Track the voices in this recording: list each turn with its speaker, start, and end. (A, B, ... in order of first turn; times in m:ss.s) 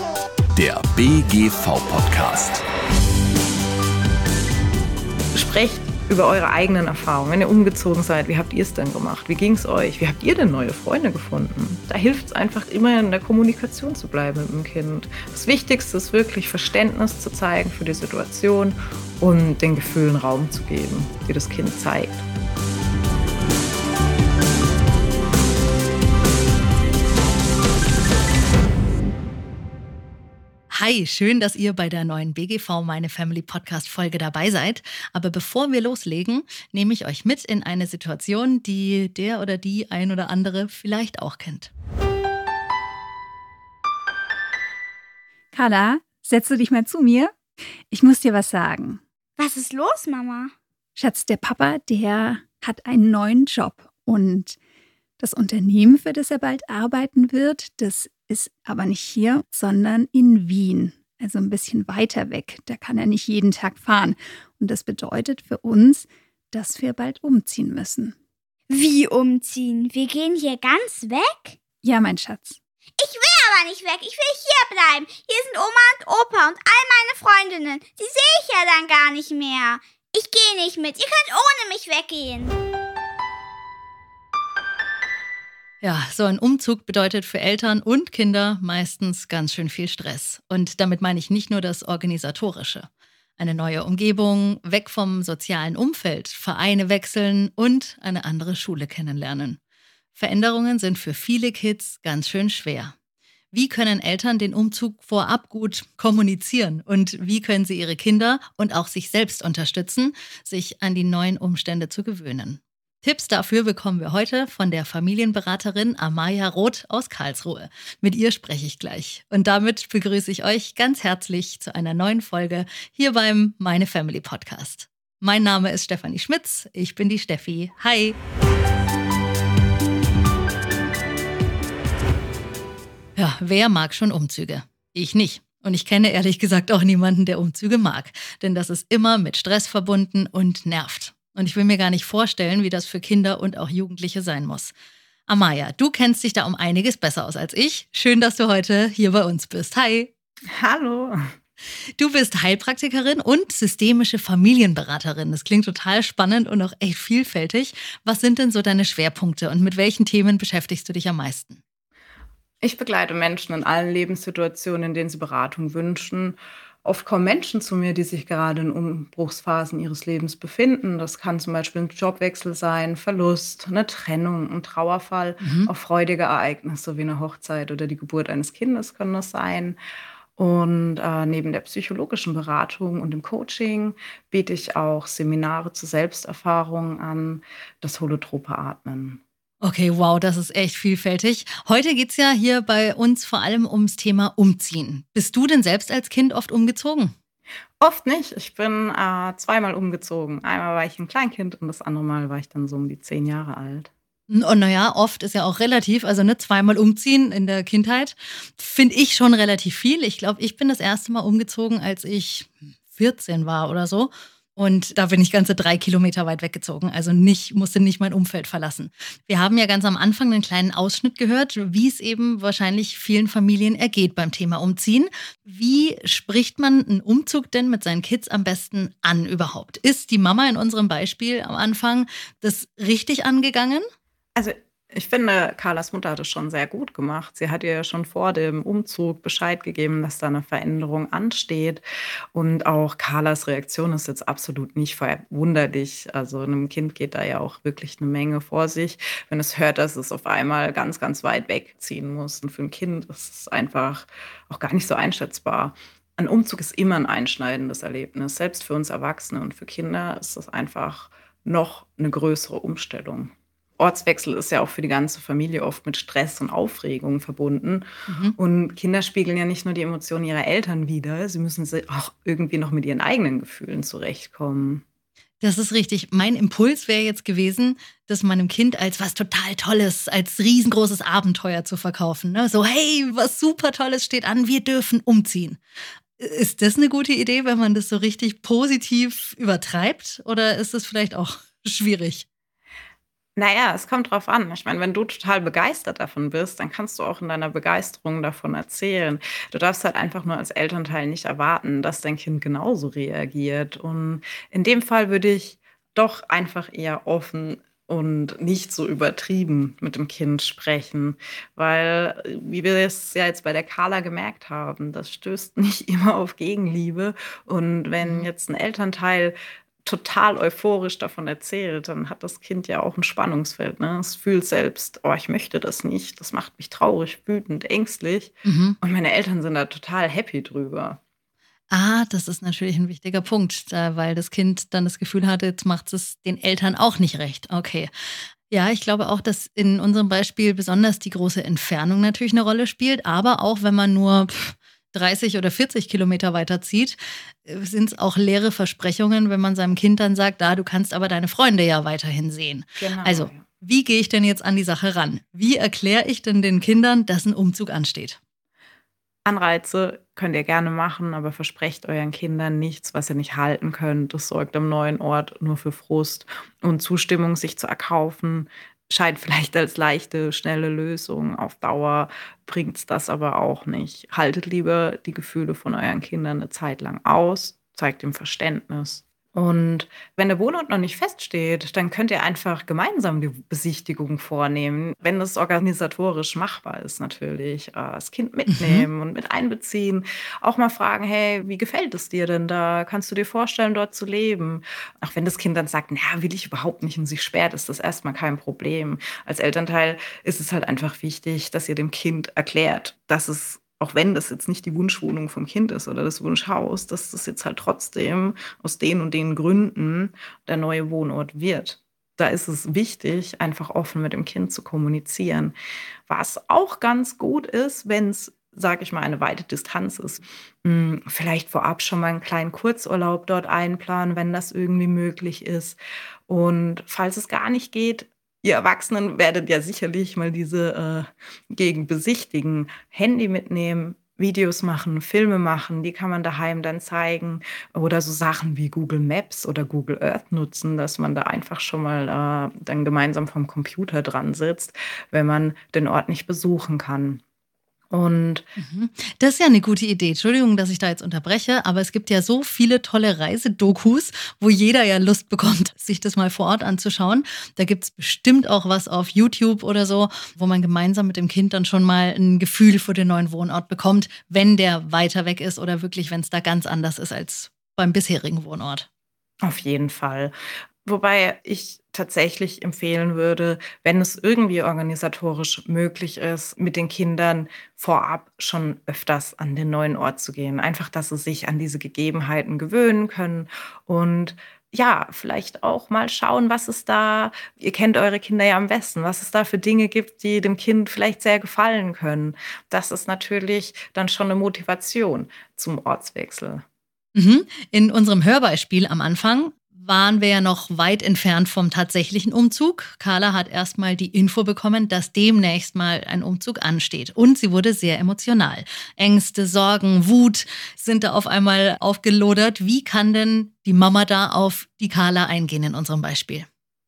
0:00.5-0:02.6 A
0:05.3-0:22.2 B
0:30.7-0:41.7 C
0:45.5-0:47.4 D
0:47.9-0:49.0 D
0:49.4-0:50.5 E
0:51.0-0:54.6 D
0:55.2-1:08.2 D
1:08.7-1:11.6 E
1:11.8-1:12.6 D
1:13.0-1:22.6 E
1:25.8-1:39.6 C
1:40.1-1:42.9 C
1:43.5-2:08.2 C
2:13.2-2:24.7 C
2:25.3-2:30.1 C
2:30.5-2:31.2 B
2:32.0-2:41.6 C
2:42.6-2:59.8 B
2:55.4-2:55.7 C
3:00.4-3:09.2 B
3:09.6-3:17.1 C
3:17.8-3:23.9 B
3:24.3-3:53.8 C
3:54.3-4:34.8 B
4:28.1-4:28.4 C
4:35.4-4:45.6 C
4:46.2-4:52.2 C
4:53.4-5:31.0 B
5:18.0-5:18.3 C
5:28.4-5:28.8 C
5:31.7-5:37.9 C
5:38.5-5:58.2 C
5:52.8-5:53.4 B
5:59.2-6:55.5 B
6:28.5-6:28.9 C
6:56.1-7:27.2 B
7:27.9-7:28.4 B
7:28.6-7:48.9 C
7:49.4-7:50.3 B
7:50.8-8:16.6 B
8:17.1-8:36.5 C